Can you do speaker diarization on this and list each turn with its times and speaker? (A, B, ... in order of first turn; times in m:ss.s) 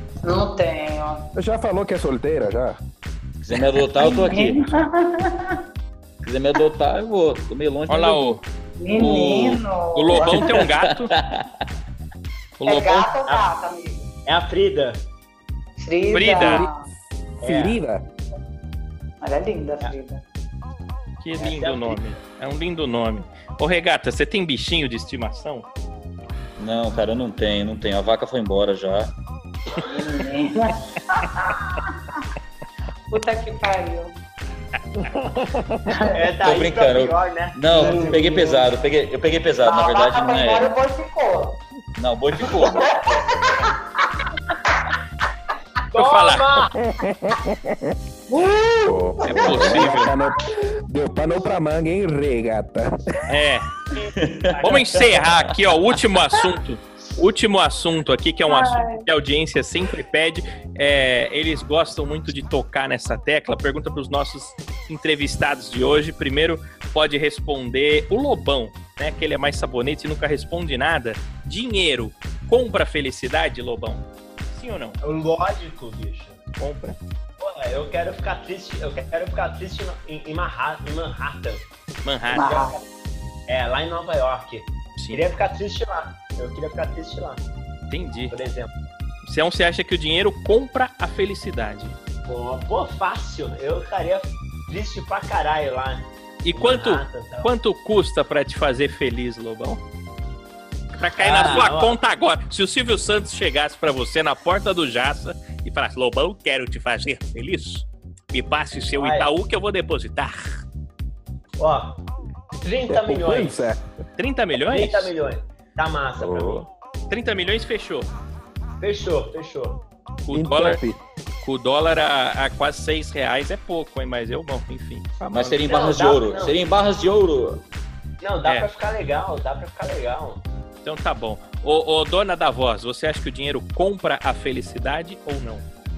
0:00.2-0:01.3 A
0:01.3-0:02.8 B
0:03.4-0:04.6 C
0:04.0-0:05.6 A
0:06.2-0:08.4 C
0:07.9-0:08.4 D
0:08.8-0:10.6 A
0:08.9-0:11.1 D
0:10.1-0:11.5 C
0:12.6-0:13.1 D
0:12.6-0:14.1 A
0:14.2-0:15.0 E
0:15.8-0:16.9 A
0:16.1-0:16.6 D
0:16.4-0:16.7 B
0:17.4-0:17.8 E
0:17.4-0:18.0 B
0:19.2-0:20.2 A
0:21.2-0:25.7 D
0:21.4-0:22.0 E
0:26.6-0:29.1 C
0:29.7-0:32.2 A
0:33.1-0:34.1 A
0:35.1-0:36.1 B
0:35.9-0:36.2 A
0:36.0-0:38.6 E
0:36.4-0:40.7 C
0:37.7-0:38.2 A
0:39.6-0:41.6 A
0:42.0-0:43.5 C
0:42.4-0:44.6 A
0:45.9-0:46.7 E
0:45.9-0:46.6 D
0:46.9-0:47.9 B
0:48.3-0:49.9 A
0:48.8-0:53.2 B
0:49.2-0:50.1 D
0:53.3-0:53.8 D
0:53.9-0:55.1 E
0:54.2-0:55.5 C
0:54.6-1:15.0 D
0:58.5-0:59.0 A
1:15.0-1:16.4 E
1:16.6-1:17.0 D
1:17.4-1:21.7 E
1:22.0-1:22.5 D
1:22.3-1:22.8 E
1:22.3-1:22.8 A
1:23.5-1:27.4 E
1:25.0-1:25.2 D
1:27.9-1:28.4 D
1:28.3-1:28.7 E
1:29.2-1:32.0 D
1:32.2-1:37.5 E
1:36.4-1:39.8 D
1:41.0-1:50.6 D
1:41.2-1:42.0 E
1:49.0-1:49.3 E
1:51.6-1:52.0 E
1:52.6-1:53.7 E
1:52.9-1:53.9 B
1:54.2-1:55.1 D
1:54.6-1:56.7 E
1:56.2-1:56.6 B
1:57.1-1:58.1 D
1:58.8-1:59.8 E
2:00.2-2:00.8 D
2:00.3-2:01.0 B
2:01.4-2:05.6 D
2:05.3-2:07.6 C
2:05.6-2:06.6 E
2:08.2-2:10.4 E
2:10.8-2:15.6 D